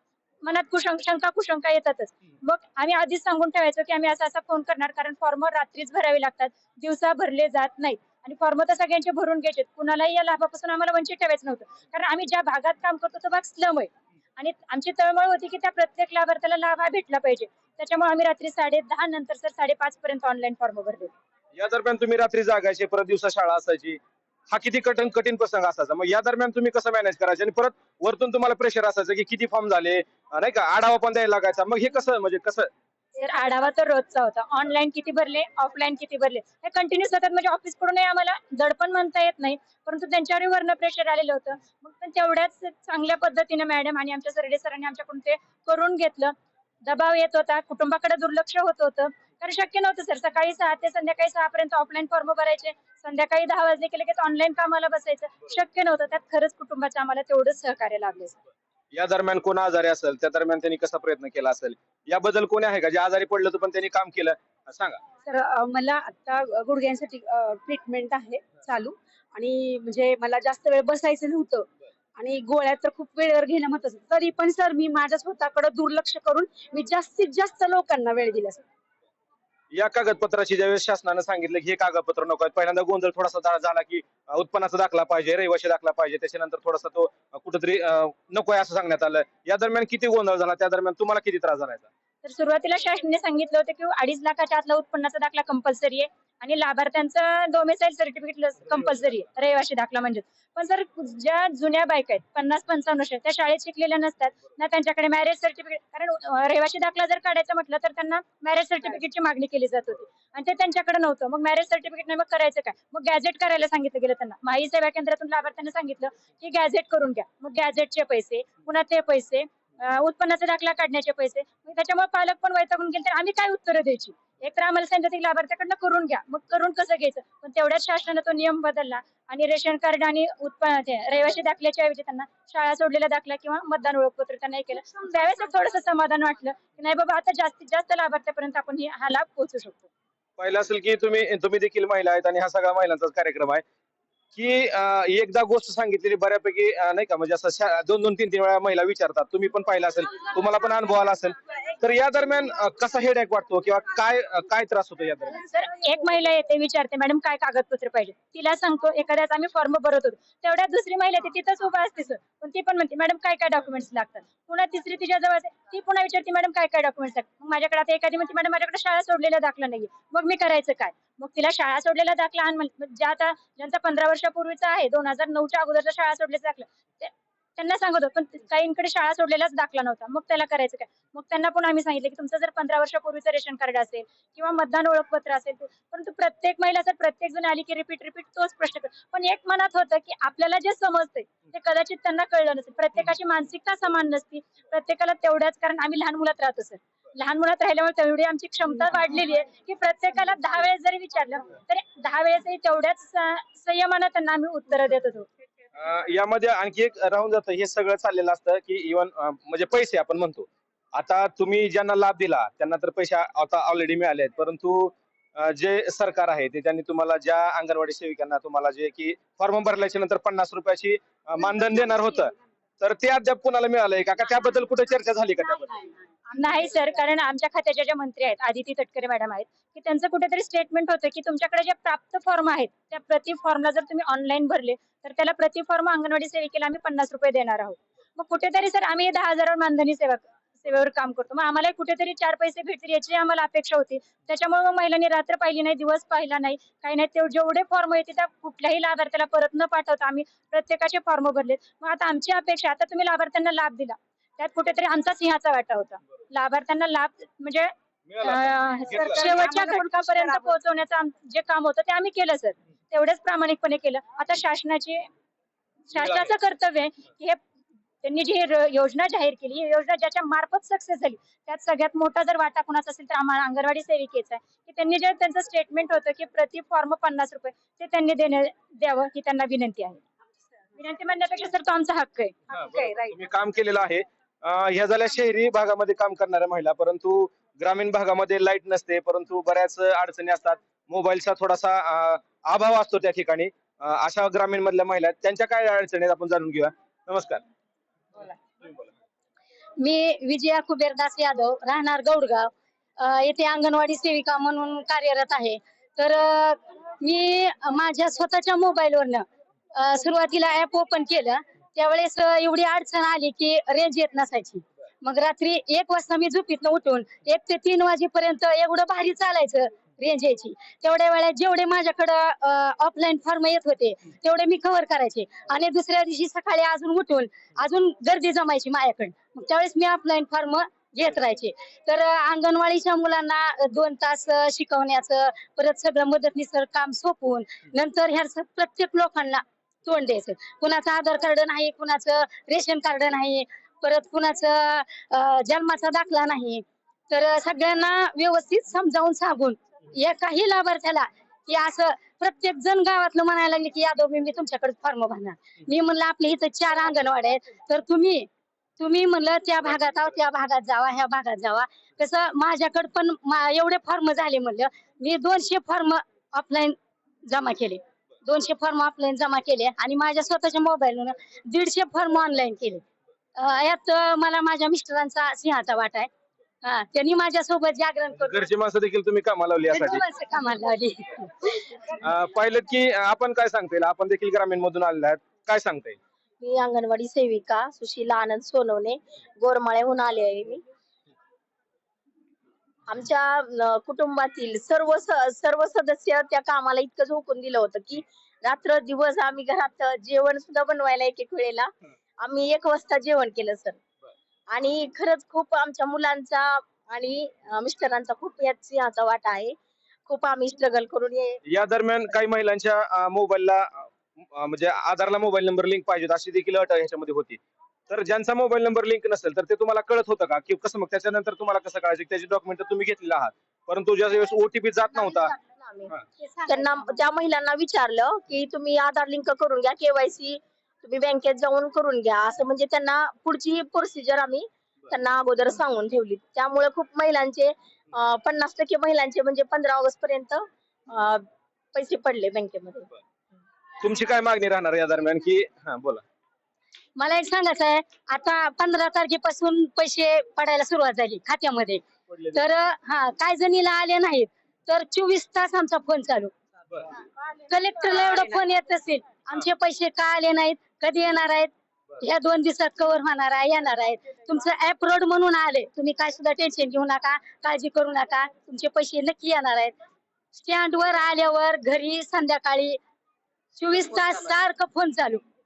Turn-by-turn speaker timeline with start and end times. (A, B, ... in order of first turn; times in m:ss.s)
0:00.4-0:21.1 A
0:21.6-0:24.0 B
0:24.5-0:32.7 B
0:33.2-0:58.4 A
0:58.9-1:05.0 B
1:05.3-1:11.7 C
1:12.2-1:18.6 C
1:19.7-1:31.9 B
1:32.2-2:19.9 A
2:20.4-2:23.6 B
2:24.3-2:35.4 B
2:35.4-3:25.3 A
3:25.8-3:45.8 B
3:46.3-4:25.1 A
4:18.1-4:19.4 B
4:19.0-4:20.5 C
4:25.9-4:27.4 A
4:25.9-4:26.3 B
4:28.0-4:40.0 A
4:40.8-4:43.0 A
4:42.5-4:57.4 B
4:59.8-5:58.3 D
5:58.8-6:12.8 D
6:13.4-6:16.1 D
6:16.6-6:18.5 D
6:18.2-6:20.0 B
6:19.7-6:21.6 D
6:21.9-6:26.0 B
6:26.4-6:30.6 E
6:32.9-6:43.8 E
6:44.5-6:49.6 E
6:50.1-6:51.4 E
6:51.5-7:05.3 B
7:04.8-7:06.0 E
7:06.2-7:07.0 D
7:06.5-7:22.9 E
7:23.8-7:26.0 B
7:27.0-7:36.3 D
7:32.1-7:32.4 B
7:37.5-7:49.7 D
7:50.4-7:52.8 D
7:53.6-7:55.2 D